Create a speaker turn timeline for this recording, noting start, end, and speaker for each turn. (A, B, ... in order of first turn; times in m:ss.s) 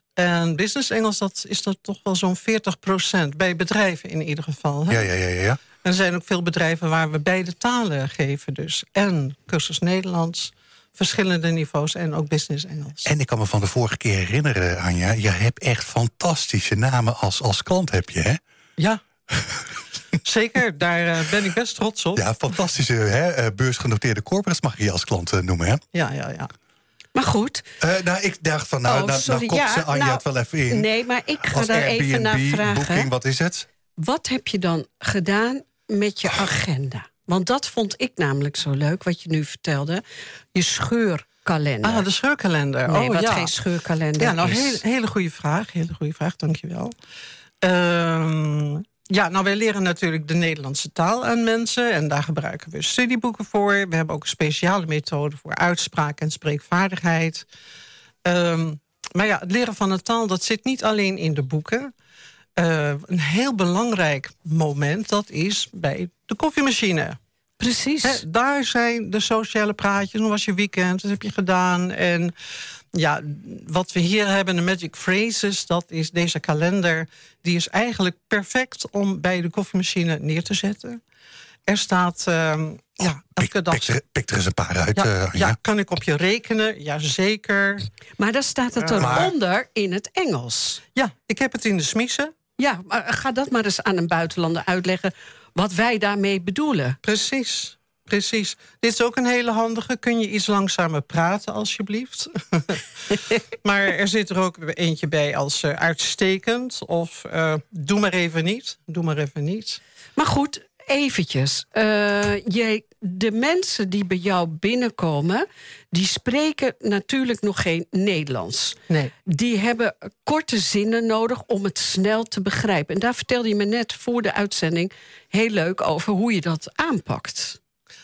0:00.2-0:05.1 A
0:04.9-0:05.6 B
0:05.8-0:13.1 A
0:13.0-0:18.4 B
0:19.3-0:19.6 B
0:20.2-0:22.3 A
0:22.2-0:25.8 B
0:25.9-0:26.5 A
0:27.1-0:27.6 C
0:27.8-0:30.9 B
0:28.9-0:33.1 C
0:31.4-0:33.7 B
0:34.0-0:40.0 C
0:40.6-0:42.1 C
0:41.8-0:43.6 A
0:42.9-0:44.8 C
0:44.2-0:46.9 A
0:47.6-0:57.4 A
0:58.2-1:01.9 A
1:02.6-1:07.2 A
1:07.6-1:08.2 C
1:08.0-1:12.4 A
1:12.9-1:21.0 A
1:21.6-1:23.9 A
1:23.0-1:25.6 B
1:24.9-1:27.9 A
1:28.2-1:30.8 C
1:28.8-1:29.3 A
1:29.0-1:29.3 B
1:30.9-1:32.3 A
1:32.6-1:37.0 C
1:37.0-1:49.8 A
1:50.2-2:07.6 C